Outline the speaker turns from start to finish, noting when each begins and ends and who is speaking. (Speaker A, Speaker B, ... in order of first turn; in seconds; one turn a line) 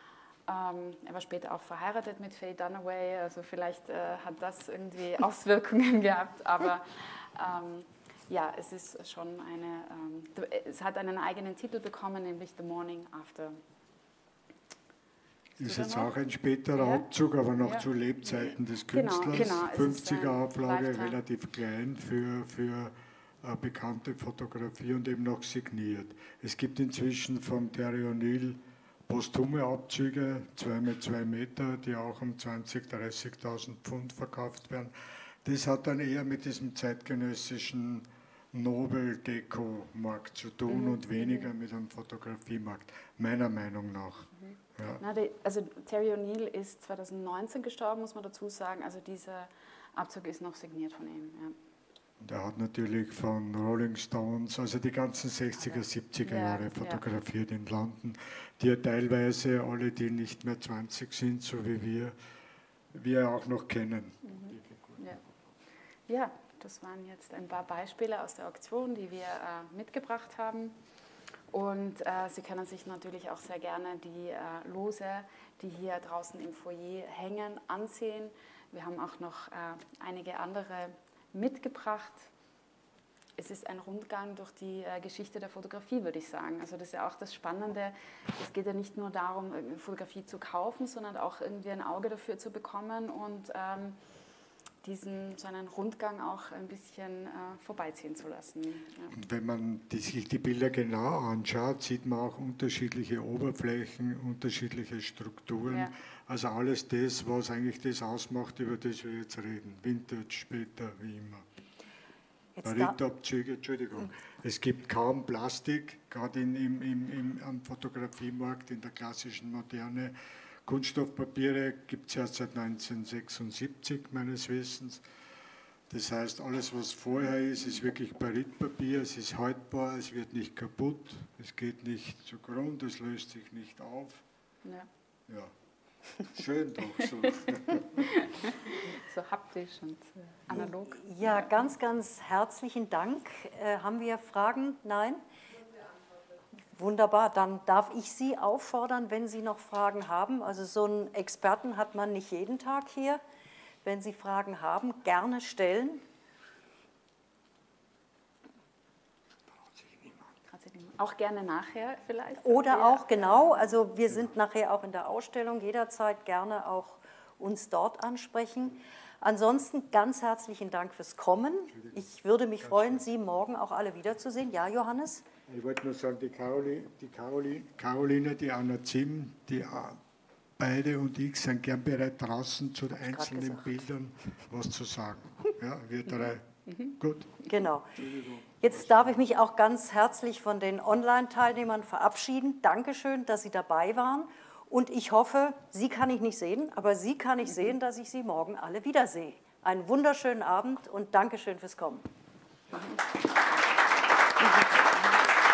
Speaker A: 0.5-13.6
Speaker B: 15.6-45.0
Speaker A: 15.6-16.1
Speaker A: 16.8-17.9
Speaker A: 18.9-21.2
Speaker A: 40.7-41.5
Speaker A: 45.0-51.6
Speaker B: 52.2-62.2
Speaker A: 55.7-57.0
Speaker B: 62.9-65.2
Speaker A: 64.2-65.2
Speaker A: 66.1-70.8
Speaker A: 71.5-82.3
Speaker A: 83.4-94.0
Speaker A: 94.8-99.2
Speaker B: 99.1-111.5
Speaker A: 105.7-105.9
Speaker C: 112.6-113.0
Speaker B: 112.6-125.0
Speaker B: 125.9-134.2
Speaker B: 135.3-135.5
Speaker B: 136.2-138.1
Speaker A: 137.7-141.4
Speaker C: 140.5-145.2
Speaker C: 146.8-153.2
Speaker C: 153.8-156.0
Speaker B: 159.6-160.3
Speaker A: 160.5-163.7
Speaker C: 162.4-175.2
Speaker B: 171.7-172.1
Speaker B: 172.6-173.0
Speaker B: 175.5-180.0
Speaker B: 180.6-189.2
Speaker C: 183.0-183.8
Speaker C: 187.5-188.0
Speaker C: 188.6-202.1